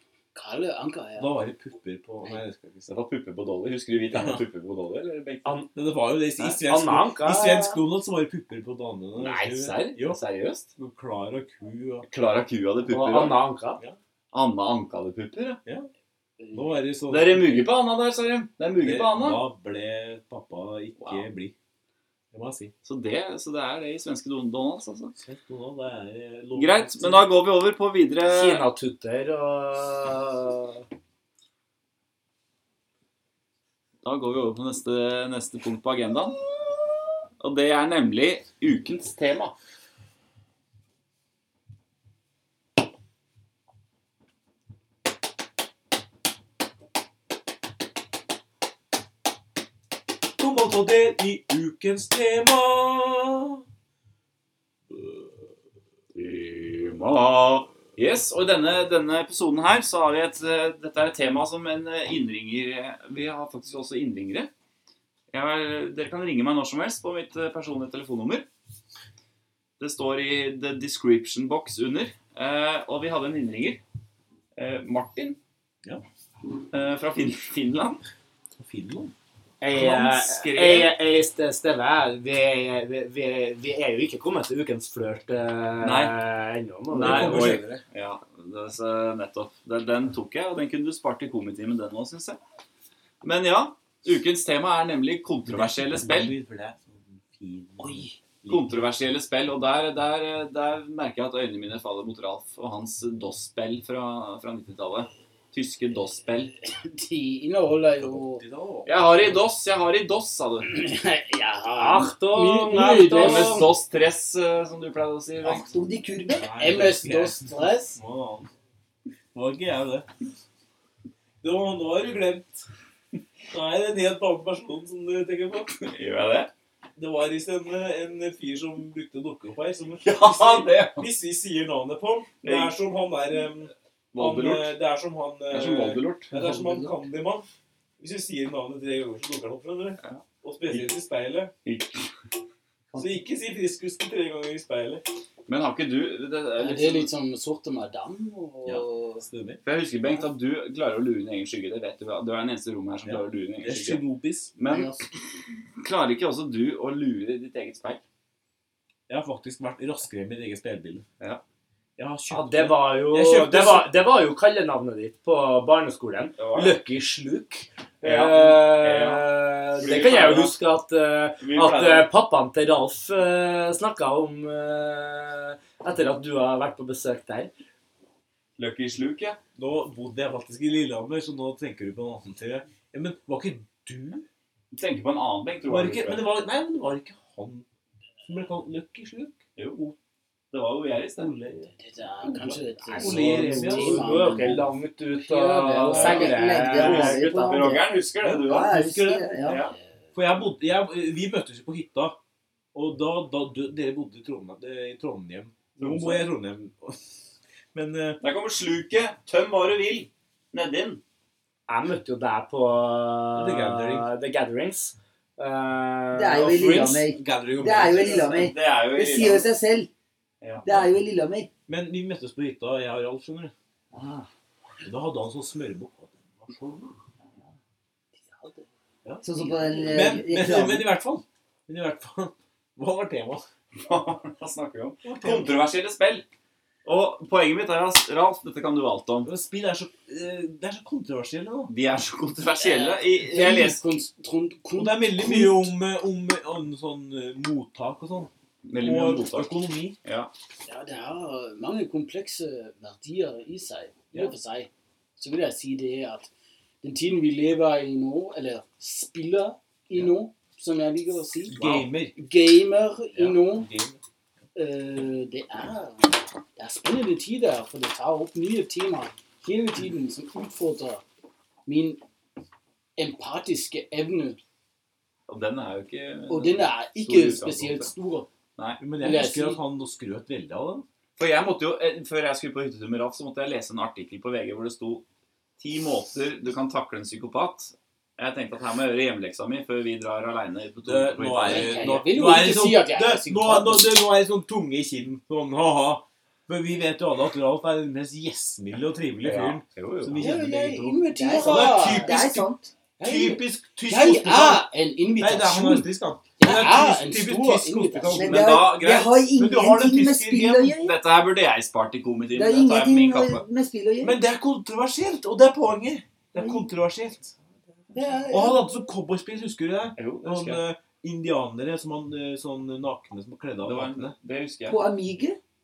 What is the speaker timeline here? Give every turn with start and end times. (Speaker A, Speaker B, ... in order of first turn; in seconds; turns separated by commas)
Speaker A: 0.3-1.3, Speaker B: 1.2-2.9, Speaker C: 2.9-5.5, Speaker B: 4.1-4.4, Speaker B: 5.8-10.2, Speaker D: 6.4-7.8, Speaker C: 9.2-10.7, Speaker B: 10.8-12.1, Speaker C: 12.1-13.4, Speaker D: 12.9-13.8, Speaker C: 14.3-15.6, Speaker B: 16.5-17.7, Speaker C: 17.1-19.4, Speaker B: 18.8-21.5, Speaker B: 22.3-22.7, Speaker C: 22.8-25.1, Speaker B: 25.2-27.3, Speaker C: 26.6-28.6, Speaker D: 28.3-30.8, Speaker C: 34.0-36.4, Speaker C: 37.4-39.5, Speaker B: 50.4-53.6, Speaker C: 56.1-64.5, Speaker C: 65.3-68.5, Speaker C: 69.8-73.8, Speaker C: 74.6-75.4, Speaker C: 76.7-78.0, Speaker B: 78.5-79.1, Speaker D: 79.6-87.6, Speaker C: 79.7-80.9, Speaker C: 85.8-86.2, Speaker B: 86.9-87.8, Speaker C: 87.0-92.4, Speaker C: 93.2-96.4, Speaker B: 95.5-98.8, Speaker A: 97.8-98.1, Speaker C: 98.5-106.5, Speaker A: 106.7-108.4, Speaker B: 108.0-109.3, Speaker C: 108.9-110.9, Speaker A: 110.7-113.7, Speaker D: 111.8-113.7, Speaker C: 113.1-115.7, Speaker E: 115.5-116.5, Speaker B: 116.3-118.5, Speaker A: 116.5-118.0, Speaker B: 119.3-120.1, Speaker B: 121.4-122.7, Speaker B: 123.5-125.7, Speaker C: 125.8-126.5, Speaker B: 127.0-137.4, Speaker C: 130.0-131.1, Speaker C: 132.4-132.7, Speaker C: 134.1-134.7, Speaker C: 135.5-136.3, Speaker E: 136.4-136.9, Speaker B: 138.0-141.5, Speaker C: 140.0-140.9, Speaker C: 141.7-142.1, Speaker B: 142.9-145.0, Speaker C: 145.5-147.1, Speaker A: 146.6-149.2, Speaker B: 148.7-149.6, Speaker C: 149.6-154.0, Speaker B: 153.1-154.5, Speaker C: 154.6-155.0, Speaker A: 154.7-155.0, Speaker C: 155.8-158.0, Speaker B: 159.1-161.1, Speaker B: 162.0-163.9, Speaker D: 162.3-177.5, Speaker C: 166.4-166.8, Speaker C: 168.0-169.3, Speaker C: 169.8-170.5, Speaker C: 171.4-172.1, Speaker C: 178.6-179.4, Speaker B: 179.6-184.2, Speaker C: 184.7-186.3, Speaker B: 185.7-187.7, Speaker B: 188.2-189.4, Speaker C: 189.6-189.9, Speaker C: 190.5-191.4, Speaker B: 191.2-191.7, Speaker A: 191.7-196.7, Speaker B: 192.4-194.7, Speaker D: 192.9-197.8, Speaker E: 196.0-197.9, Speaker C: 196.8-198.8, Speaker B: 198.2-199.3, Speaker E: 198.4-199.6, Speaker C: 199.4-199.8, Speaker B: 200.2-202.2, Speaker B: 202.7-207.0, Speaker C: 205.8-206.3, Speaker B: 207.7-208.2, Speaker C: 208.2-211.0, Speaker D: 211.7-216.8, Speaker B: 213.3-214.1, Speaker E: 216.1-219.9, Speaker B: 216.3-218.5, Speaker C: 218.0-219.5, Speaker C: 220.4-220.7, Speaker E: 220.6-221.5, Speaker B: 221.7-223.5, Speaker E: 223.9-224.3, Speaker B: 224.8-226.9, Speaker A: 228.2-228.7, Speaker B: 229.1-233.4, Speaker E: 229.2-230.9, Speaker C: 233.8-236.2, Speaker B: 235.0-235.6, Speaker C: 236.8-239.3, Speaker B: 239.2-241.7, Speaker C: 241.7-243.8, Speaker A: 242.5-245.6, Speaker B: 244.8-250.0, Speaker C: 248.7-250.3, Speaker A: 250.7-256.3, Speaker A: 256.8-263.7, Speaker B: 261.5-262.2, Speaker B: 263.1-264.0, Speaker A: 264.6-271.0, Speaker A: 271.7-272.0, Speaker A: 273.0-274.4, Speaker C: 275.3-277.9, Speaker A: 276.3-278.3, Speaker B: 278.8-280.9, Speaker A: 279.0-279.6, Speaker C: 281.2-285.0, Speaker C: 285.6-292.0, Speaker B: 290.9-302.5, Speaker A: 291.4-293.9, Speaker C: 299.2-300.2, Speaker A: 300.2-302.3, Speaker E: 301.1-302.7, Speaker B: 303.0-304.7, Speaker A: 303.0-308.3, Speaker B: 305.2-308.7, Speaker E: 308.1-310.9, Speaker C: 308.2-309.2, Speaker B: 309.3-310.8, Speaker C: 310.8-313.4, Speaker E: 312.4-314.2, Speaker B: 314.0-317.4, Speaker E: 316.4-316.6, Speaker E: 317.9-318.7, Speaker B: 318.3-324.1, Speaker C: 320.0-320.6, Speaker C: 323.6-324.8, Speaker E: 324.7-325.4